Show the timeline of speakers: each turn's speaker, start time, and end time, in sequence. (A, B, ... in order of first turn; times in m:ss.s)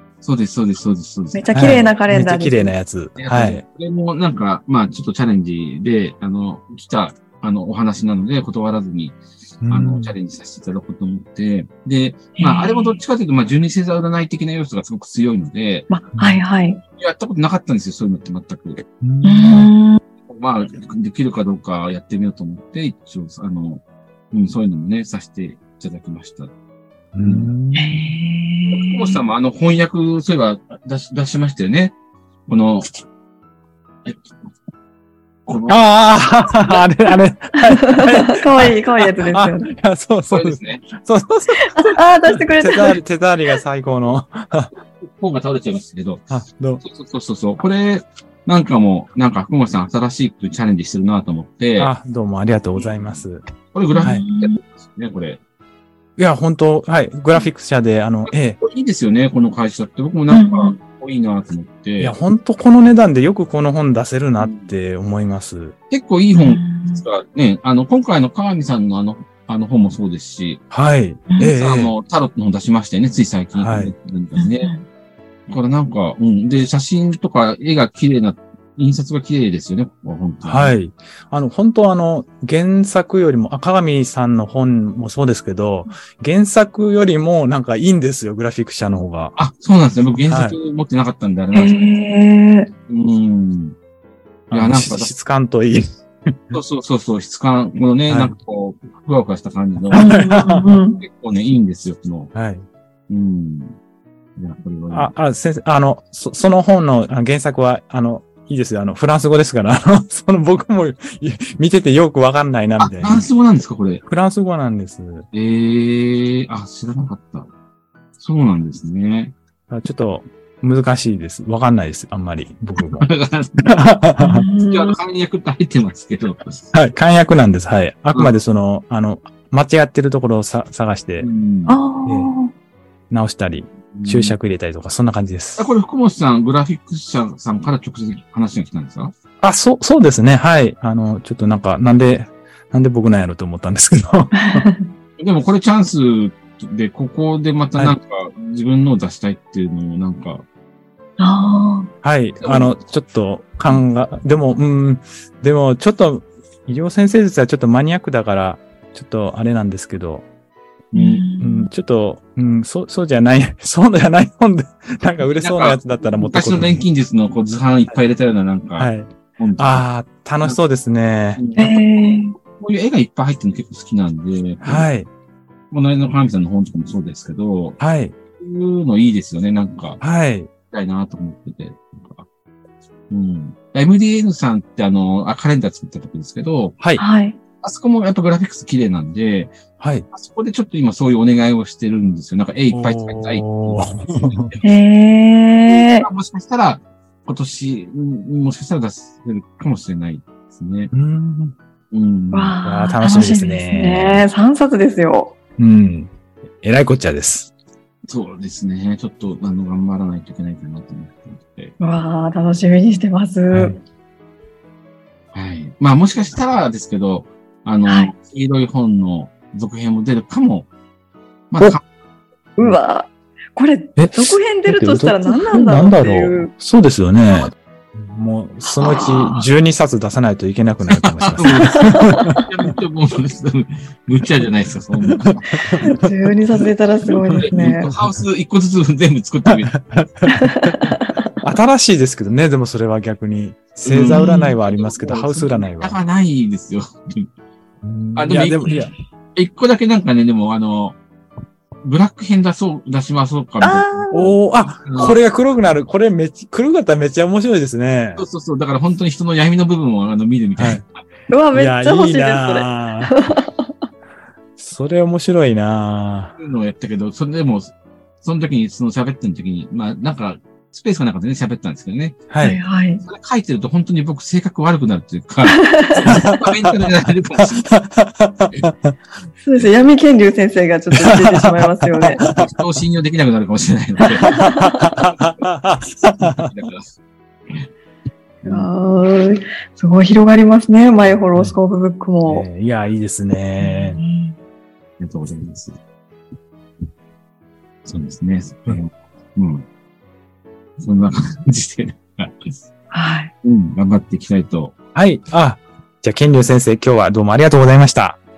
0:00.2-0:01.9 A
0:01.3-0:02.8 B
0:01.5-0:03.6 C
0:03.2-0:15.9 A
0:09.6-0:10.2 C
0:12.4-0:13.0 B
0:15.9-0:16.8 B
0:16.2-0:16.4 C
0:17.0-0:18.8 A
0:19.0-0:19.7 C
0:19.2-0:20.0 B
0:20.3-0:26.5 A
0:27.2-0:28.1 C
0:27.2-0:27.5 A
0:27.8-0:29.2 B
0:28.7-0:31.9 A
0:32.5-0:32.9 A
0:35.5-0:35.8 A
0:35.7-0:44.7 C
0:36.4-0:36.8 A
0:37.7-0:39.7 B
0:40.3-0:40.8 A
0:41.6-0:43.0 B
0:45.0-0:46.2 A
0:46.3-0:46.8 C
0:46.8-0:51.9 A
0:51.8-0:53.4 C
0:52.8-0:55.4 A
0:53.9-0:54.6 B
0:56.2-0:58.6 C
0:58.3-1:02.2 A
1:00.3-1:00.8 B
1:02.0-1:05.8 C
1:04.4-1:04.7 A
1:05.9-1:10.6 A
1:06.3-1:07.0 B
1:10.7-1:11.9 C
1:11.4-1:14.7 A
1:13.6-1:13.9 C
1:14.4-1:14.8 B
1:15.5-1:20.8 A
1:20.4-1:29.4 C
1:29.4-1:31.9 A
1:30.3-1:30.6 C
1:31.5-1:32.7 B
1:32.9-1:33.8 A
1:34.5-1:36.6 C
1:34.5-1:35.1 A
1:36.5-1:40.2 A
1:38.1-1:38.4 C
1:39.9-1:40.6 C
1:39.9-1:41.0 B
1:41.0-1:42.3 A
1:42.3-1:42.7 C
1:43.1-1:43.8 A
1:44.4-1:45.1 A
1:44.9-1:53.3 C
1:52.8-1:54.0 A
1:54.1-1:55.3 C
1:55.3-1:57.5 A
1:58.2-1:59.4 A
1:59.7-2:03.1 C
2:02.8-2:03.7 A
2:03.7-2:04.4 C
2:04.2-2:05.0 B
2:04.7-2:06.7 A
2:06.7-2:11.3 C
2:11.2-2:11.8 A
2:11.7-2:12.5 B
2:12.0-2:12.3 C
2:13.1-2:15.7 C
2:13.9-2:14.4 A
2:15.6-2:19.1 A
2:19.4-2:24.6 C
2:24.4-2:24.9 B
2:25.2-2:30.4 A
2:31.2-2:31.9 B
2:32.0-2:40.3 C
2:32.4-2:32.8 A
2:40.9-2:41.7 B
2:41.4-2:46.8 C
2:45.2-2:49.9 A
2:48.8-2:51.4 C
2:51.4-2:51.8 A
2:51.6-2:52.4 B
2:52.6-2:54.9 A
2:54.6-2:55.1 C
2:55.7-2:57.8 A
2:57.8-2:58.2 C
2:58.4-3:00.0 A
3:00.0-3:00.5 C
3:00.7-3:02.3 A
3:03.1-3:06.8 A
3:07.0-3:07.4 B
3:07.6-3:09.6 A
3:09.8-3:10.1 C
3:10.1-3:14.8 A
3:12.7-3:14.5 C
3:14.6-3:16.0 B
3:15.7-3:20.9 A
3:20.9-3:21.6 C
3:21.9-3:22.6 A
3:22.3-3:25.4 B
3:22.6-3:24.3 C
3:25.6-3:26.1 C
3:26.6-3:27.5 C
3:28.1-3:31.7 A
3:31.8-3:33.8 B
3:33.5-3:33.8 C
3:35.3-3:40.7 A
3:37.9-3:38.1 B
3:41.5-3:41.8 A
3:42.6-3:46.5 B
3:44.0-3:52.2 C
3:48.6-3:49.5 B
3:50.9-3:55.8 A
3:55.7-3:57.9 B
3:57.1-3:58.2 C
3:57.3-3:59.8 A
3:59.5-4:00.8 C
4:00.3-4:01.1 B
4:01.4-4:06.0 C
4:03.8-4:07.3 A
4:04.1-4:04.6 B
4:07.8-4:08.9 C
4:08.2-4:11.0 A
4:11.8-4:14.1 A
4:13.6-4:14.4 B
4:14.1-4:18.2 C
4:14.8-4:15.2 A
4:18.2-4:21.0 A
4:20.6-4:20.8 C
4:21.3-4:23.7 B
4:21.5-4:23.1 C
4:24.6-4:26.4 C
4:26.4-4:32.2 A
4:32.3-4:32.6 C
4:32.4-4:33.0 B
4:33.0-4:37.8 A
4:35.5-4:36.0 B
4:37.7-4:38.9 C
4:39.4-4:42.2 B
4:41.0-4:41.4 C
4:42.0-4:42.5 C
4:42.2-4:44.5 A
4:44.2-4:46.5 C
4:44.3-4:44.9 B
4:45.1-4:45.5 A
4:46.2-4:46.9 A
4:48.4-4:48.7 C
4:48.4-4:52.4 B
4:52.2-4:54.0 C
4:53.6-4:54.4 B
4:55.0-4:55.8 A
4:57.8-4:59.7 A
5:00.8-5:02.6 A
5:02.9-5:03.3 B
5:03.4-5:04.7 A
5:05.0-5:08.2 C